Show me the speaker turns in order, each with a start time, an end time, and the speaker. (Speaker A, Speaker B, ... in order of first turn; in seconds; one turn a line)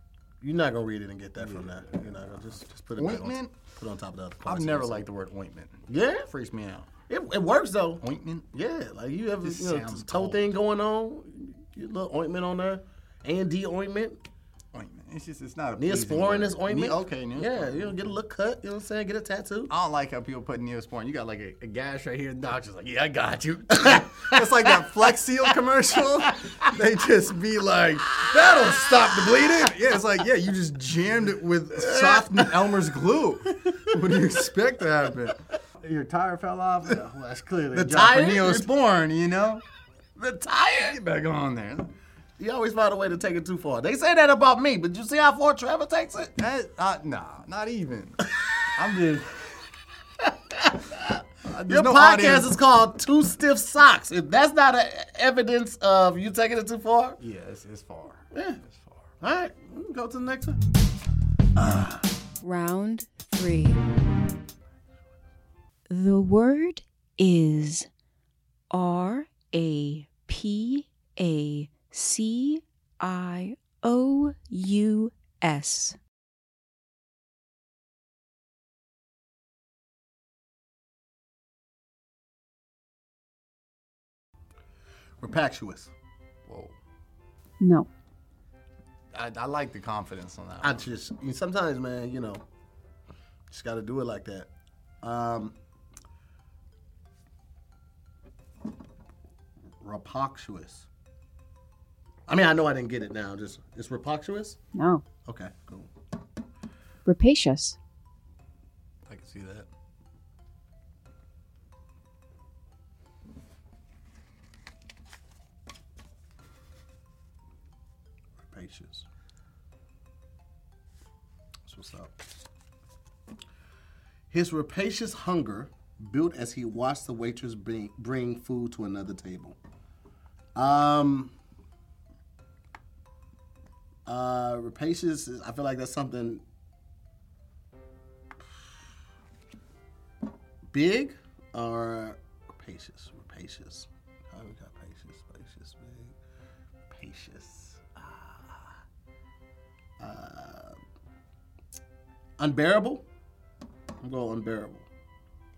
Speaker A: 0.4-5.0
Speaker B: 1.4-3.5
Speaker B: 4.5-6.9
Speaker A: 5.9-6.3
Speaker A: 7.1-14.2
Speaker B: 8.0-8.5
Speaker B: 9.4-10.5
Speaker B: 14.7-18.1
Speaker A: 15.8-19.7
Speaker B: 19.7-39.6
Speaker A: 23.8-24.7
Speaker A: 31.8-32.5
Speaker A: 37.7-38.7
Speaker A: 40.2-41.0
Speaker B: 40.8-41.9
Speaker A: 42.4-46.3
Speaker B: 46.4-49.7
Speaker A: 50.2-57.2
Speaker B: 51.5-52.5
Speaker B: 57.2-59.0
Speaker A: 58.3-58.6
Speaker A: 59.2-60.6
Speaker A: 61.6-62.0
Speaker C: 62.4-63.8
Speaker C: 65.9-67.9
Speaker C: 68.7-76.0
Speaker A: 85.2-85.9
Speaker B: 86.5-86.8
Speaker C: 87.6-87.9
Speaker B: 89.1-90.9
Speaker A: 90.6-92.4
Speaker A: 93.5-94.5
Speaker A: 95.0-95.6
Speaker A: 99.8-100.9
Speaker A: 102.3-104.6
Speaker C: 104.7-105.0
Speaker A: 105.2-105.9
Speaker C: 107.0-107.8
Speaker B: 109.1-109.7
Speaker A: 118.4-119.0
Speaker A: 121.7-122.1
Speaker A: 124.3-129.6
Speaker A: 130.6-131.3
Speaker A: 134.1-136.4
Speaker A: 140.7-146.2
Speaker A: 146.9-148.7
Speaker A: 150.0-150.8
Speaker A: 152.4-153.1
Speaker A: 154.0-154.9